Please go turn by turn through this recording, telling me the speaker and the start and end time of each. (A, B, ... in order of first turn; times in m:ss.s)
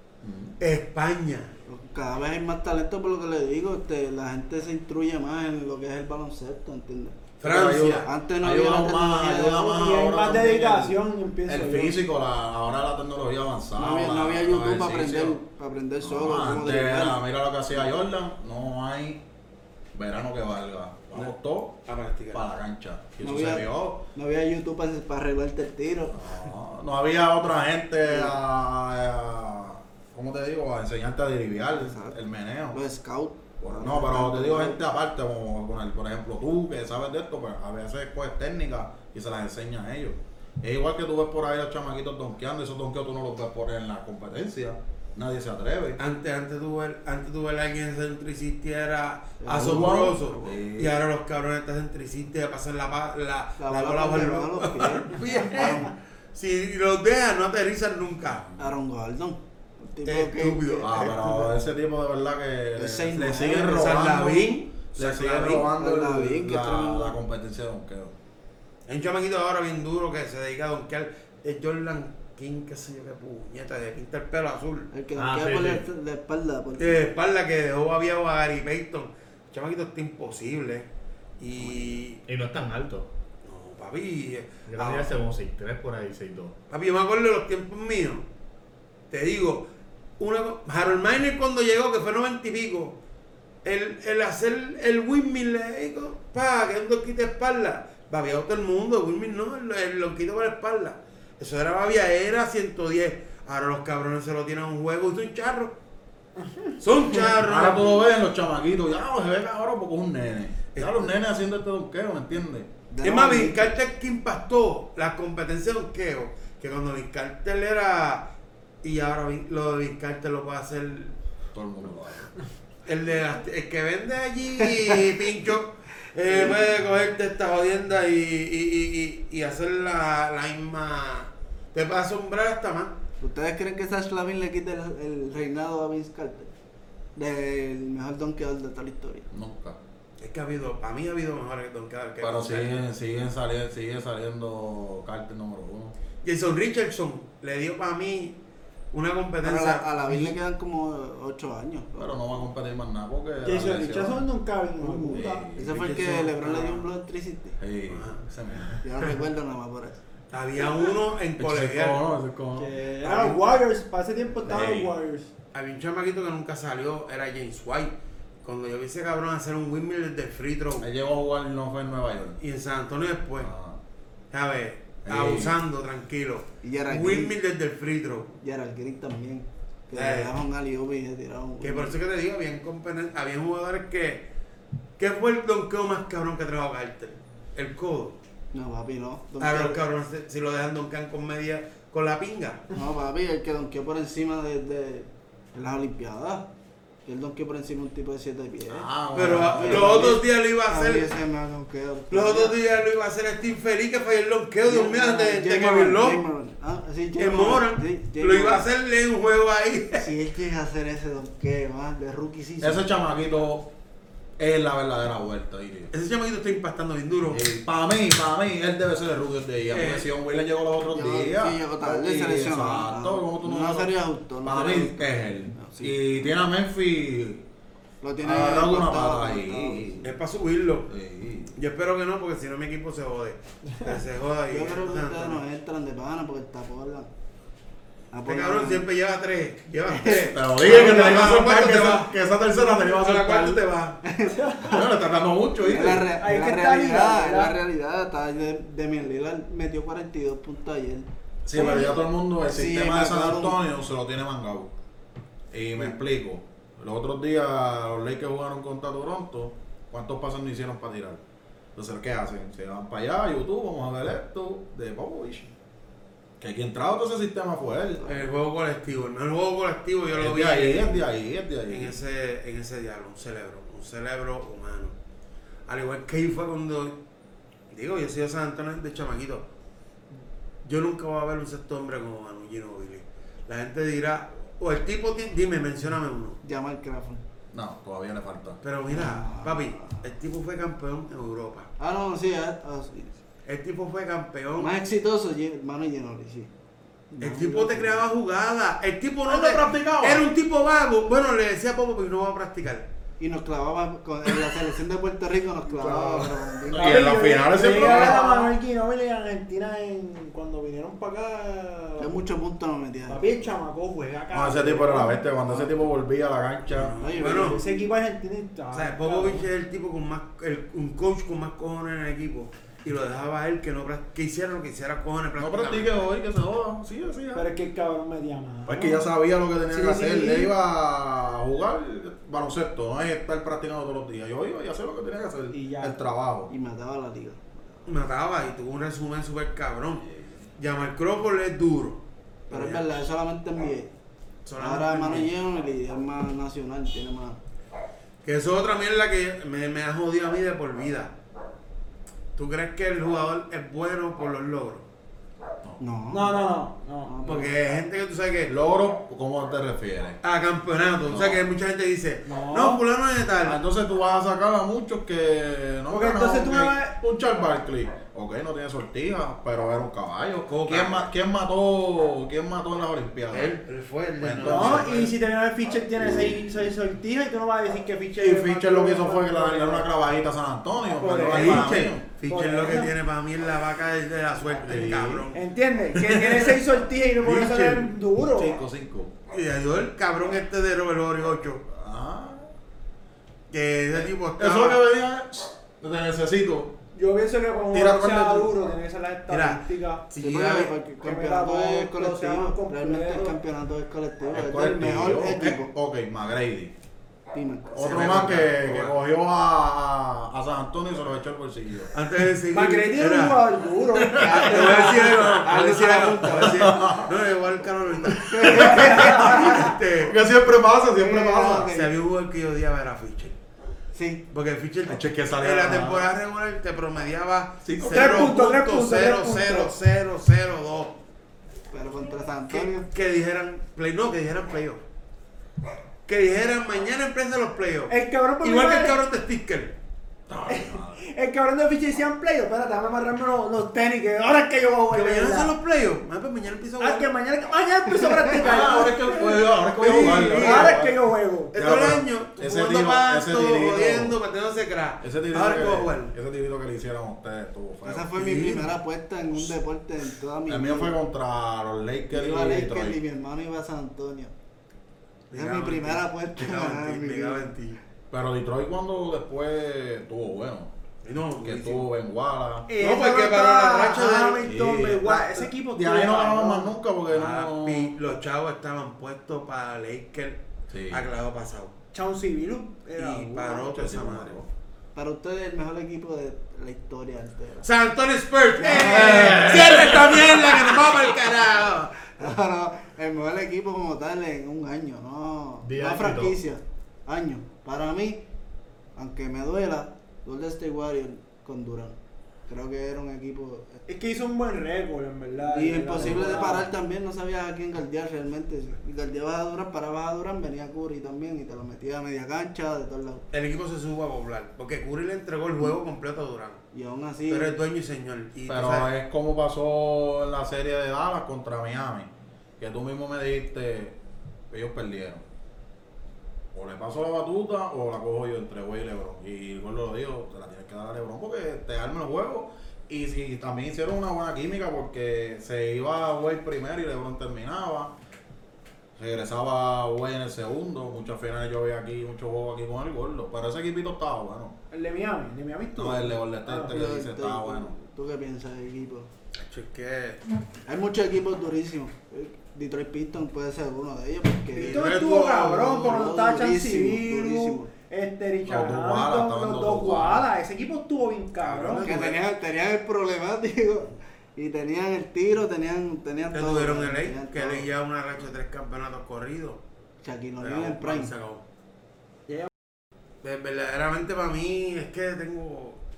0:00.2-0:00.6 A
0:00.6-0:01.5 B
0:01.7-0:07.3 C
0:07.4-0:08.1 B
0:07.4-0:15.4 A
0:08.0-0:09.8 C
0:09.7-0:12.0 D
0:13.8-0:17.9 C
0:16.0-0:19.2 A
0:19.9-0:24.0 A
0:21.8-0:22.5 B
0:23.2-0:26.2 C
0:26.1-0:32.8 A
0:28.0-0:28.4 C
0:31.7-0:32.2 C
0:32.7-0:34.8 C
0:33.6-0:46.0 A
0:46.0-0:58.4 B
0:49.4-0:50.6 C
0:49.5-0:51.0 A
0:53.6-0:55.9 C
0:58.2-0:58.8 A
0:58.6-1:00.9 C
1:00.0-1:01.4 B
1:00.8-1:08.2 A
1:02.8-1:04.0 C
1:03.5-1:05.7 B
1:05.5-1:07.2 C
1:08.9-1:14.9 B
1:14.9-1:17.0 C
1:15.2-1:15.8 E
1:16.8-1:20.9 B
1:21.4-1:22.2 B
1:22.2-1:23.1 E
1:23.4-1:25.1 B
1:24.7-1:26.5 E
1:26.7-1:28.2 B
1:29.1-1:29.7 B
1:30.2-1:33.0 B
1:33.6-1:45.8 B
1:46.8-1:48.0 B
1:47.4-1:52.7 A
1:50.8-1:51.1 B
1:52.9-1:53.7 C
1:53.0-1:58.3 B
1:58.8-2:01.2 B
2:01.5-2:02.3 A
2:02.8-2:13.0 B
2:06.3-2:06.6 C
2:13.2-2:16.5 C
2:17.2-2:19.3 C
2:19.3-2:19.8 A
2:20.2-2:22.8 B
2:22.2-2:26.0 A
2:26.2-2:28.4 B
2:28.9-2:30.3 B
2:29.4-2:32.5 C
2:32.0-2:34.3 A
2:33.4-2:35.5 D
2:34.8-2:37.6 C
2:35.1-2:36.2 A
2:35.7-2:36.8 B
2:37.6-2:38.8 A
2:37.9-2:38.8 B
2:38.8-2:40.0 C
2:40.3-2:42.0 B
2:41.4-2:42.7 A
2:42.6-2:45.3 D
2:43.0-2:43.6 B
2:44.4-2:44.9 A
2:45.5-2:50.9 B
2:50.8-2:52.4 A
2:52.4-2:53.5 B
2:53.4-2:53.8 A
2:54.3-2:58.4 B
2:55.1-2:55.6 A
2:56.6-2:57.4 C
2:58.4-3:02.0 C
2:59.9-3:00.4 B
3:01.6-3:04.3 B
3:05.0-3:08.2 B
3:08.5-3:09.8 C
3:09.4-3:12.6 B
3:12.7-3:16.5 C
3:17.0-3:22.6 C
3:18.7-3:20.2 A
3:19.1-3:21.1 B
3:22.1-3:26.2 B
3:24.6-3:28.7 C
3:27.2-3:30.1 B
3:30.0-3:32.9 C
3:32.6-3:33.7 A
3:34.4-3:35.9 A
3:35.9-3:37.4 B
3:37.3-3:43.9 A
3:39.7-3:40.1 B
3:40.8-3:46.1 C
3:44.4-3:47.4 A
3:48.0-3:49.9 C
3:48.2-3:50.1 A
3:50.0-3:50.9 B
3:50.9-3:51.6 A
3:51.6-3:55.4 B
3:54.5-3:57.1 C
3:58.1-3:58.9 C
3:58.2-4:04.0 B
3:59.9-4:00.4 C
4:00.0-4:03.6 A
4:04.0-4:04.9 C
4:04.3-4:04.8 D
4:04.7-4:06.1 A
4:05.6-4:13.6 C
4:06.2-4:07.5 D
4:11.4-4:14.7 A
4:15.5-4:21.2 A
4:21.8-4:25.5 A
4:26.4-4:28.0 A
4:28.0-4:28.3 C
4:28.0-4:31.1 B
4:30.1-4:32.0 A
4:31.7-4:35.0 B
4:35.7-4:37.0 B
4:37.7-4:39.5 B
4:40.6-4:46.4 B
4:46.4-4:47.2 C
4:47.5-4:48.6 A
4:48.6-4:51.7 B
4:48.9-4:50.0 C
4:51.8-4:53.2 C
4:53.5-4:54.8 B
4:54.6-4:56.5 C
4:57.1-4:58.1 C
4:57.2-5:02.9 B
4:59.3-5:00.2 A
5:03.2-5:07.2 C
5:05.8-5:08.5 A
5:06.8-5:12.2 D
5:07.8-5:08.2 C
5:12.0-5:13.2 C
5:13.1-5:15.8 D
5:14.3-5:17.0 A
5:16.6-5:17.6 B
5:17.0-5:17.9 C
5:17.3-5:19.5 D
5:18.7-5:26.1 B
5:25.4-5:27.5 A
5:27.3-5:29.1 D
5:28.6-5:36.5 A
5:29.7-5:30.5 D
5:35.5-5:36.0 D
5:36.5-5:37.8 C
5:37.9-5:40.0 B
5:40.6-5:42.9 B
5:42.5-5:43.9 C
5:44.4-5:45.3 B
5:44.6-5:47.4 C
5:48.2-5:51.1 B
5:52.4-5:54.9 B
5:55.8-5:56.5 C
5:56.1-5:57.1 D
5:57.0-5:57.6 C
5:57.2-5:58.5 B
5:58.5-6:00.2 A
6:00.2-6:03.6 B
6:01.1-6:01.4 A
6:02.3-6:02.8 D
6:03.4-6:13.6 A
6:05.9-6:07.0 D
6:10.5-6:11.1 B
6:13.3-6:15.1 B
6:14.2-6:15.1 A
6:14.4-6:19.9 D
6:18.2-6:22.1 A
6:21.0-6:22.9 D
6:21.3-6:25.4 B
6:24.6-6:25.2 A
6:25.4-6:28.6 D
6:26.0-6:26.6 B
6:27.2-6:28.0 B
6:28.3-6:29.1 A
6:29.3-6:31.6 B
6:31.7-6:32.5 A
6:33.5-6:34.8 B
6:34.0-6:36.8 A
6:36.9-6:40.1 D
6:37.7-6:38.5 A
6:39.3-6:40.8 B
6:40.2-6:45.7 C
6:41.0-6:43.4 D
6:44.3-6:46.7 A
6:47.3-6:48.2 C
6:47.8-6:51.9 A
6:47.8-6:49.0 B
6:51.9-6:53.4 B
6:52.5-6:56.6 D
6:54.0-6:55.2 A
6:54.2-7:00.2 B
6:56.2-6:57.1 A
6:58.2-7:01.7 A
6:58.5-6:59.7 D
7:01.0-7:01.4 D
7:01.1-7:01.9 C
7:01.7-7:03.4 B
7:03.9-7:04.2 C
7:04.3-7:11.0 B
7:04.9-7:06.1 A
7:07.6-7:08.5 A
7:07.8-7:09.7 D
7:11.7-7:12.9 C
7:12.5-7:14.8 B
7:16.1-7:19.7 B
7:17.9-7:19.0 D
7:20.3-7:21.0 A
7:20.5-7:25.6 D
7:24.9-7:27.1 B
7:26.8-7:31.9 D
7:28.3-7:34.2 A
7:29.8-7:30.8 B
7:31.5-7:36.1 B
7:35.0-7:38.5 A
7:37.8-7:41.0 C
7:38.2-7:38.7 B
7:40.5-7:43.0 A
7:42.1-7:44.3 C
7:45.3-7:47.8 B
7:45.3-7:47.6 C
7:48.1-7:50.7 A
7:51.0-7:51.9 B
7:51.4-7:52.7 A
7:52.7-7:56.7 D
7:52.8-7:54.5 B
7:54.4-7:57.9 A
7:57.1-8:01.7 B
8:00.7-8:01.0 A
8:01.9-8:04.0 D
8:03.0-8:04.4 B
8:03.8-8:04.5 A
8:05.0-8:07.6 C
8:07.6-8:12.1 B
8:08.6-8:09.5 D
8:08.8-8:10.1 A
8:12.0-8:18.2 C
8:15.6-8:16.4 E
8:19.0-8:23.8 C
8:23.9-8:26.7 D
8:25.4-8:33.2 C
8:33.3-8:36.6 B
8:36.7-8:37.6 C
8:37.3-8:38.9 B
8:38.5-8:44.0 A
8:44.5-8:45.2 A
8:46.5-8:57.9 A
8:59.0-9:04.6 A
9:04.7-9:06.7 D
9:05.7-9:07.8 A
9:06.7-9:09.1 C
9:09.4-9:10.2 B
9:10.7-9:14.9 C
9:14.6-9:16.1 B
9:14.6-9:22.0 D
9:15.8-9:17.7 C
9:18.4-9:20.3 A
9:21.4-9:22.2 B
9:21.8-9:27.7 C
9:26.3-9:29.6 B
9:30.0-9:31.1 C
9:30.4-9:31.4 B
9:33.2-9:35.8 B